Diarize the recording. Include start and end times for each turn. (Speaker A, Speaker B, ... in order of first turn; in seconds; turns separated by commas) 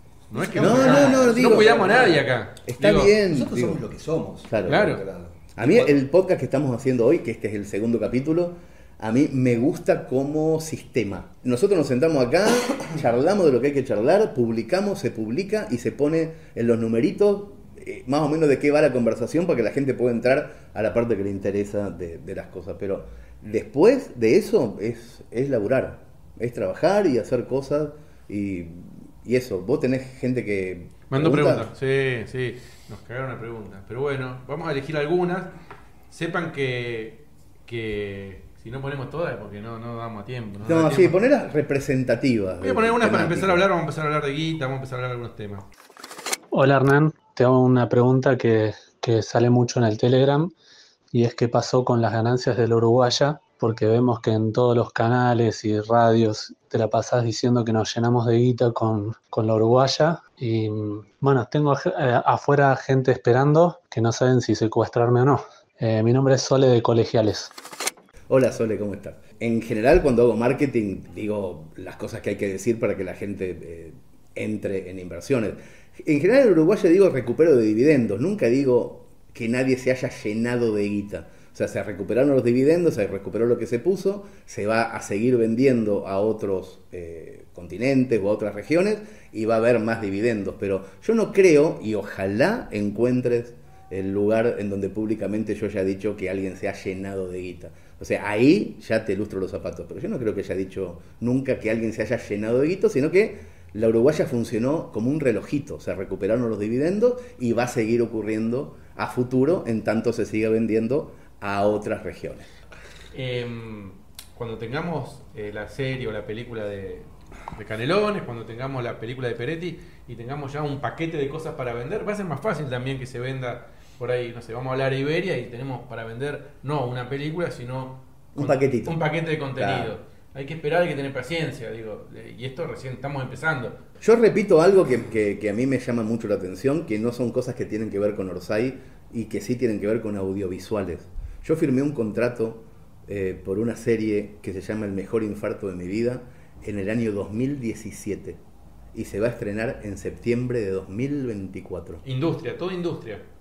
Speaker A: 0.3-2.2, Speaker B: 0.3-3.1, Speaker C: 0.6-2.1, Speaker C: 2.7-3.8, Speaker A: 3.2-5.6, Speaker C: 4.5-5.0, Speaker B: 4.7-5.0, Speaker C: 5.6-31.7, Speaker B: 5.6-5.9, Speaker B: 31.1-35.5, Speaker B: 36.1-41.2, Speaker C: 40.6-43.7, Speaker B: 42.6-45.7, Speaker D: 46.5-50.5, Speaker D: 51.1-67.5, Speaker C: 68.3-112.5, Speaker B: 113.1-133.8, Speaker C: 128.4-129.0, Speaker C: 129.5-129.9, Speaker C: 134.0-148.4, Speaker C: 148.9-152.0, Speaker B: 152.1-153.2